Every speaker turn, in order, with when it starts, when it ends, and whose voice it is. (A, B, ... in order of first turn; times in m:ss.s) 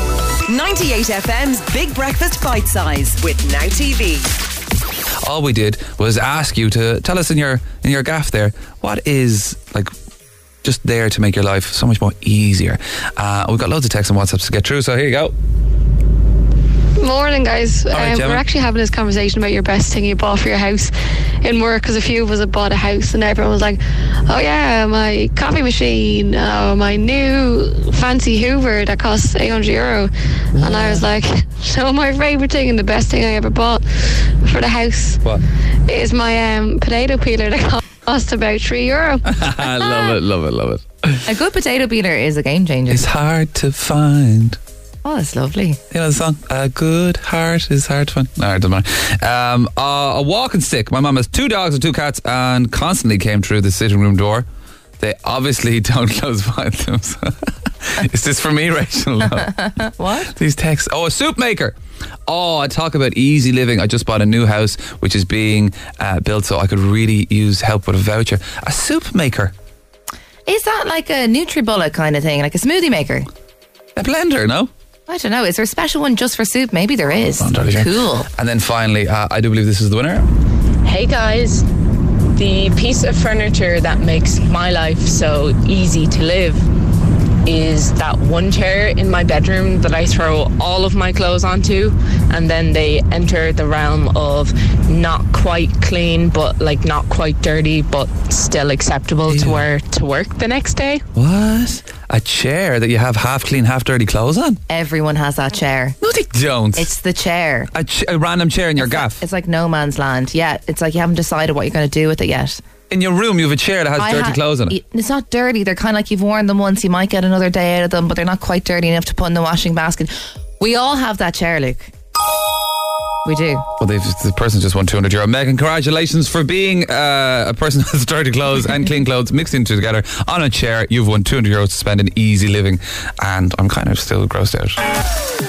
0:00.5-0:04.3 A
0:05.2-0:09.9 B
0:10.6-0:15.3 B
0:17.0-0:20.9 C
0:17.9-0:18.4 B
0:21.4-0:35.2 C
0:30.6-0:31.1 B
0:35.9-0:39.2 C
0:39.3-0:41.2 B
0:41.2-0:43.0 D
0:42.9-0:44.6 B
0:45.0-0:45.8 D
0:45.9-0:54.4 B
0:55.0-0:59.7 B
0:59.8-1:00.3 D
1:00.2-1:01.7 B
1:02.3-1:09.5 B
1:10.4-1:13.3 D
1:14.0-1:14.7 B
1:15.1-1:18.3 D
1:17.4-1:20.2 B
1:20.8-1:21.6 E
1:22.3-1:26.6 E
1:27.4-1:41.0 E
1:39.3-1:39.7 B
1:41.1-1:44.6 B
1:44.7-1:46.0 D
1:46.0-1:46.9 B
1:46.8-1:47.7 D
1:47.7-1:49.2 B
1:48.8-1:52.6 D
1:52.9-1:54.8 B
1:54.0-2:01.9 D
2:03.2-2:03.6 D
2:03.8-2:14.8 B